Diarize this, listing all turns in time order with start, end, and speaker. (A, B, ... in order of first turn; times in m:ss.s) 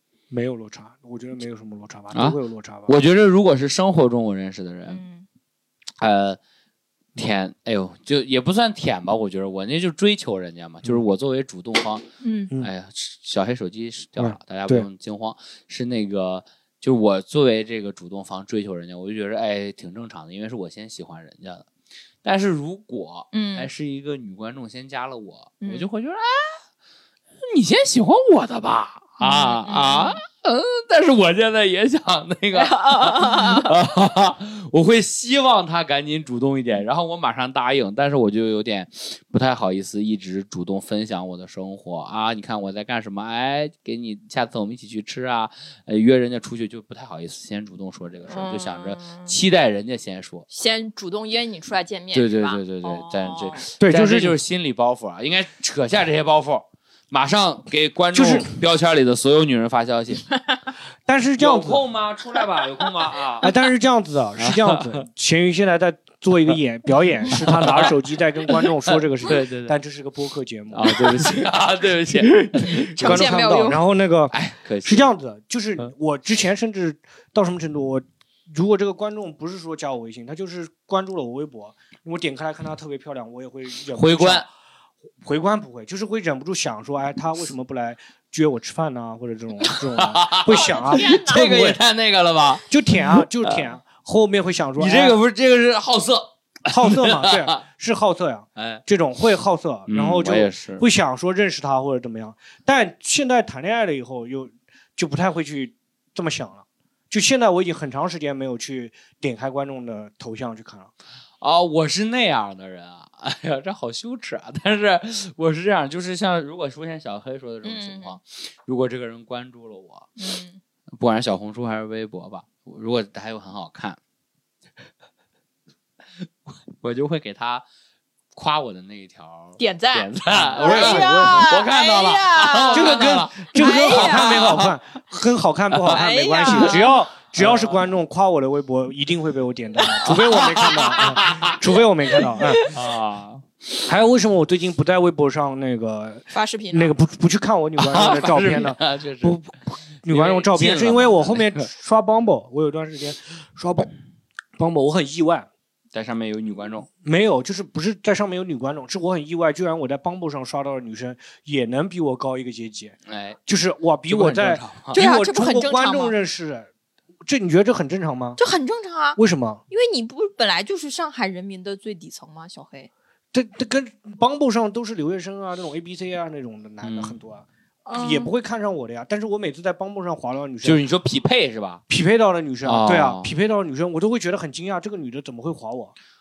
0:00.3-0:03.0 A
0:02.1-0:05.0 B
0:04.9-0:05.3 C
0:06.0-0:06.4 B
0:07.2-0:12.0 B
0:12.2-0:12.5 C
0:12.6-0:21.7 B
0:14.2-0:14.9 A
0:22.2-0:26.6 B
0:23.3-0:23.7 C
0:25.6-0:25.9 C
0:27.4-0:50.5 B
0:29.2-0:30.2 C
0:32.5-0:33.7 C
0:48.3-0:49.4 C
0:50.5-0:53.7 C
0:52.1-1:00.2 B
0:53.8-0:54.4 A
0:58.1-0:58.5 A
1:00.3-1:00.6 C
1:01.1-1:01.8 A
1:01.4-1:03.5 B
1:03.4-1:11.5 A
1:04.4-1:05.0 B
1:07.2-1:08.0 B
1:08.5-1:09.8 B
1:10.7-1:13.3 B
1:12.1-1:24.5 A
1:13.0-1:13.8 C
1:14.3-1:15.1 B
1:23.9-1:24.5 B
1:25.2-1:31.8 A
1:29.7-1:33.7 B
1:30.5-1:31.5 C
1:32.7-1:35.2 A
1:34.8-1:37.5 B
1:36.7-1:50.9 A
1:38.6-1:38.8 B
1:39.9-1:40.8 B
1:51.4-2:00.1 B
1:57.6-1:58.2 C
2:00.2-2:00.6 C
2:01.0-2:04.0 B
2:06.5-2:07.6 B
2:08.4-2:14.7 B
2:09.6-2:14.5 C
2:10.3-2:11.5 A
2:12.7-2:22.6 A
2:15.7-2:16.8 B
2:15.9-2:16.9 C
2:17.4-2:17.8 B
2:20.0-2:21.7 B
2:20.9-2:21.4 C
2:22.2-2:23.4 B
2:22.2-2:22.7 C
2:23.8-2:33.9 A
2:26.3-2:26.9 C
2:27.8-2:29.4 B
2:30.1-2:31.6 B
2:34.6-2:35.5 A
2:35.9-2:36.9 B
2:37.0-2:43.0 A
2:43.1-2:43.4 B
2:43.5-2:46.7 A
2:44.1-2:45.0 B
2:44.9-2:46.2 C
2:47.2-2:48.4 A
2:48.4-2:49.2 C
2:49.2-2:49.6 A
2:49.7-2:52.9 C
2:53.3-2:57.5 A
2:56.8-2:57.2 B
2:57.8-2:58.3 C
2:58.0-3:00.8 A
3:00.6-3:01.8 B
3:01.9-3:06.0 A
3:02.6-3:03.3 B